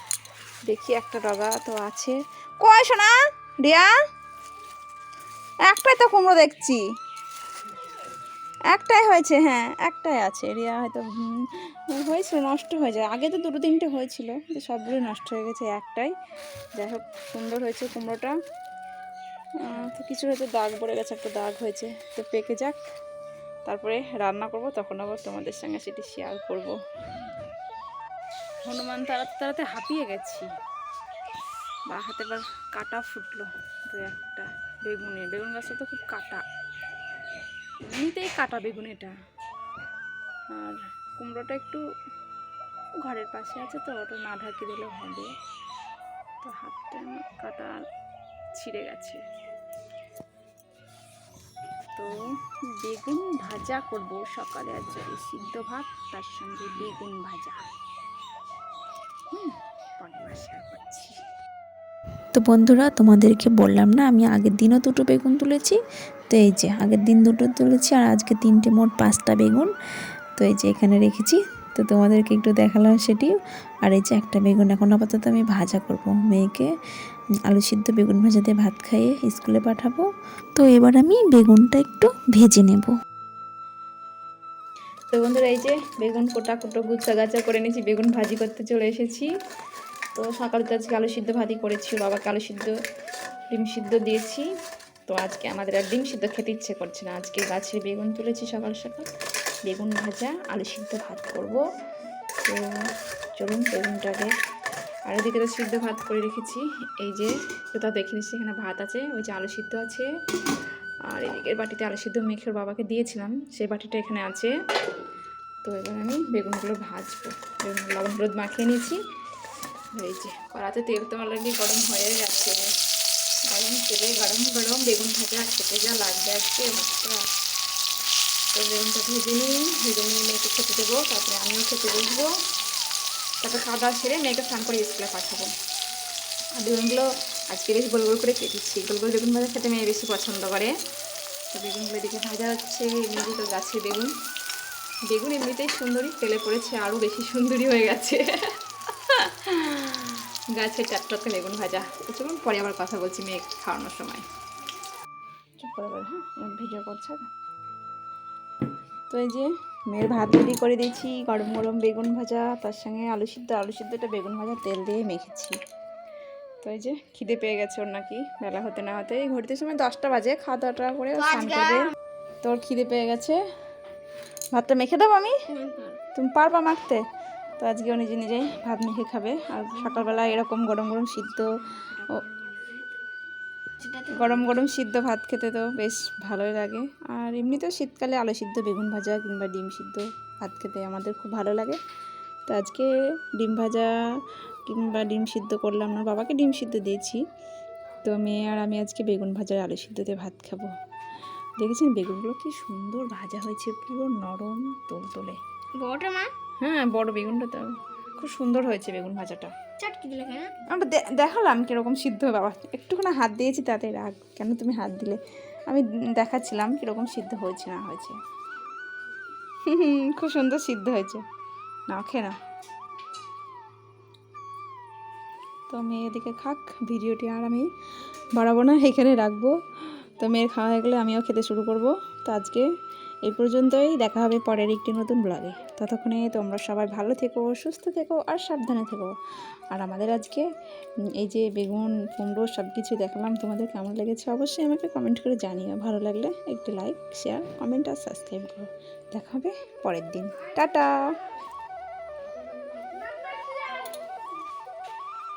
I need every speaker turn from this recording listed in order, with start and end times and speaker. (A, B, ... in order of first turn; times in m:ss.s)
0:00.7-0:03.9 A
0:05.7-0:06.8 A
0:08.7-0:16.1 A
0:16.8-0:18.4 A
0:19.6-0:22.9 A
0:23.6-0:26.8 A
0:28.6-0:30.5 A
0:31.9-0:36.4 A
0:37.8-0:39.1 A
0:40.5-0:41.8 A
0:43.0-0:45.4 A
0:46.4-0:47.8 A
0:48.5-0:49.2 A
0:52.8-0:57.6 A
0:59.3-1:01.2 A
1:02.4-1:05.8 B
1:06.3-1:09.7 B
1:10.4-1:16.7 B
1:17.5-1:20.1 B
1:20.6-1:22.9 B
1:25.1-1:29.3 A
1:30.2-1:32.8 A
1:33.5-1:34.5 A
1:35.1-1:39.1 A
1:39.6-1:41.6 A
1:43.4-1:44.4 A
1:45.1-1:50.1 A
1:51.1-1:54.5 A
1:55.6-1:59.0 A
1:59.9-2:02.7 A
2:03.5-2:07.2 A
2:08.5-2:12.4 A
2:13.4-2:15.5 A
2:16.6-2:20.7 A
2:21.5-2:24.1 A
2:25.1-2:34.2 A
2:35.6-2:37.3 A
2:39.1-2:45.6 A
2:46.6-2:53.4 A
2:54.5-2:55.4 A
2:55.5-2:56.0 C
2:56.1-2:57.0 A
2:57.6-3:02.2 A
3:03.8-3:04.3 C
3:04.0-3:11.8 A
3:12.5-3:13.9 A
3:14.7-3:17.2 A
3:18.0-3:20.7 A
3:21.6-3:25.4 A
3:25.8-3:26.3 C
3:26.6-3:29.5 A
3:29.8-3:30.6 C
3:30.7-3:38.2 A
3:39.7-3:41.2 A
3:41.9-3:42.4 A
3:45.7-3:47.7 A
3:48.4-3:49.6 A
3:50.2-3:52.7 A
3:53.2-3:59.1 A
3:59.7-4:00.5 A
4:01.2-4:10.9 A